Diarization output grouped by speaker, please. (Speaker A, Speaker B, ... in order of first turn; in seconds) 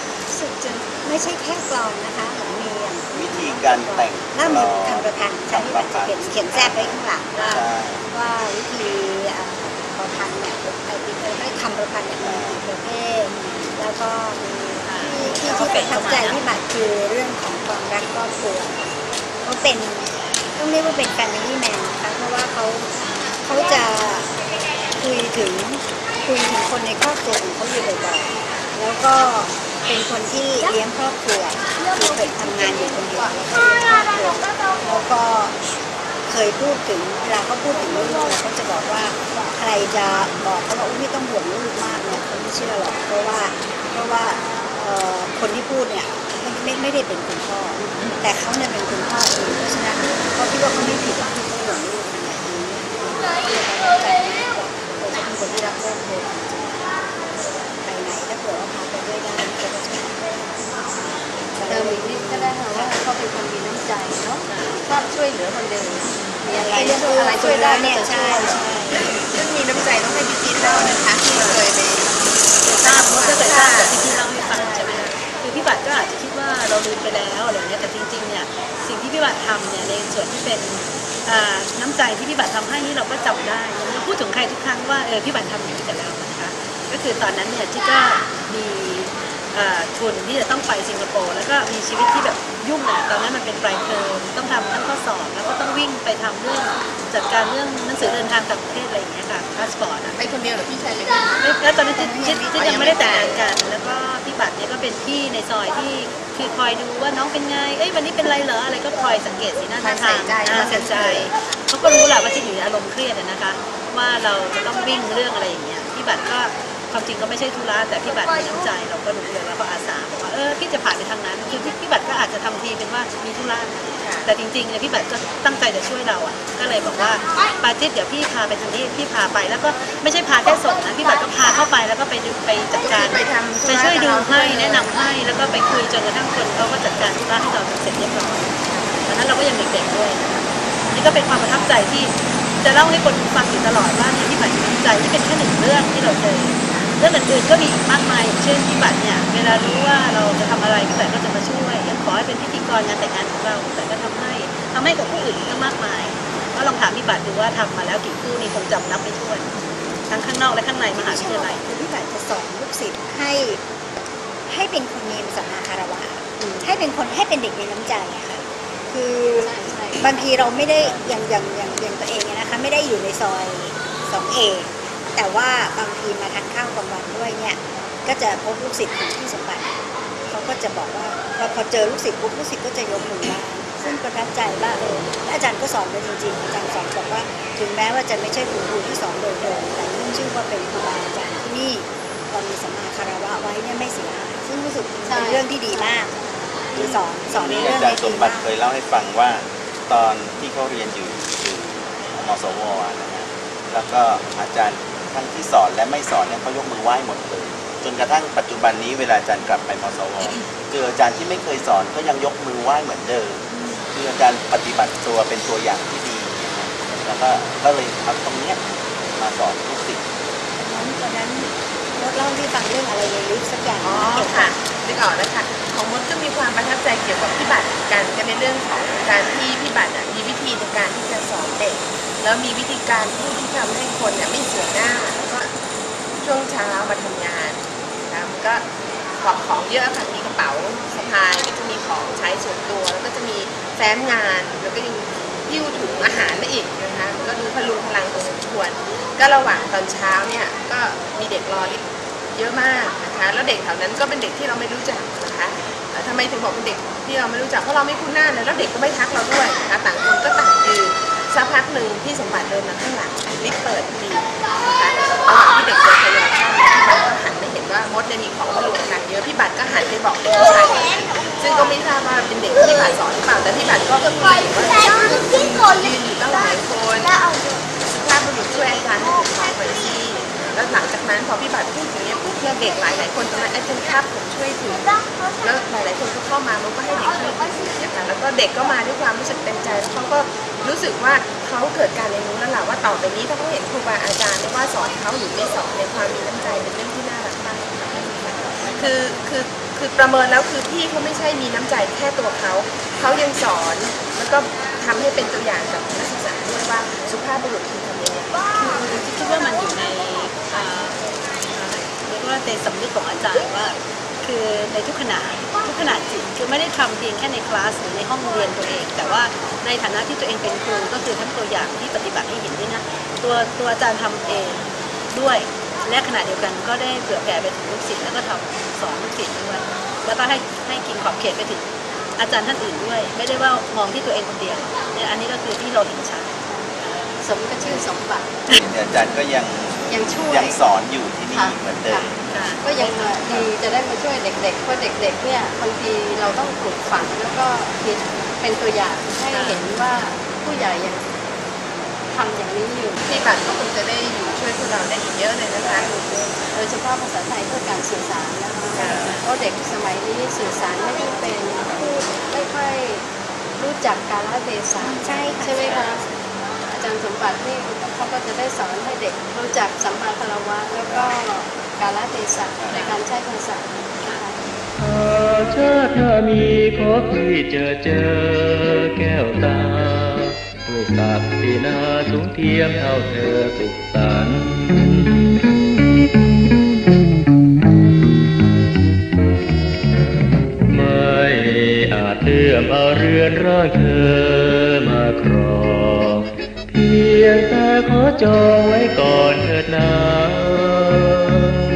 Speaker A: 0.3-24.3, 24.9-35.5, 36.3-63.0, 66.4-69.2, 70.8-71.6, 101.9-103.2, 160.8-163.6, 164.5-179.7, 180.3-198.5, 220.6-224.5, 364.7-365.9
Speaker B: 3.1-8.1, 12.2-12.6, 196.7-218.6, 219.1-220.0, 338.5-342.1, 358.7-359.2, 365.5-366.0, 370.9-371.2, 372.6-372.9
Speaker C: 14.8-16.4, 64.5-64.8, 72.6-100.2, 101.5-159.5, 160.1-161.7, 308.5-331.6, 332.2-336.9, 337.6-337.9, 342.3-343.5, 349.3-349.6, 372.7-373.0, 374.0-374.3
Speaker D: 61.7-69.0, 169.4-171.0, 195.1-196.2, 336.5-338.4, 339.9-340.6, 341.3-351.2, 352.1-353.3, 355.6-366.1, 366.6-374.5
Speaker E: 66.7-74.2, 100.1-101.6, 102.5-103.4, 109.8-111.3, 132.8-135.5, 138.7-138.9, 223.8-235.5, 236.2-238.6, 239.2-277.2, 277.8-308.4, 353.0-355.9
Speaker F: 374.8-385.2, 390.7-401.4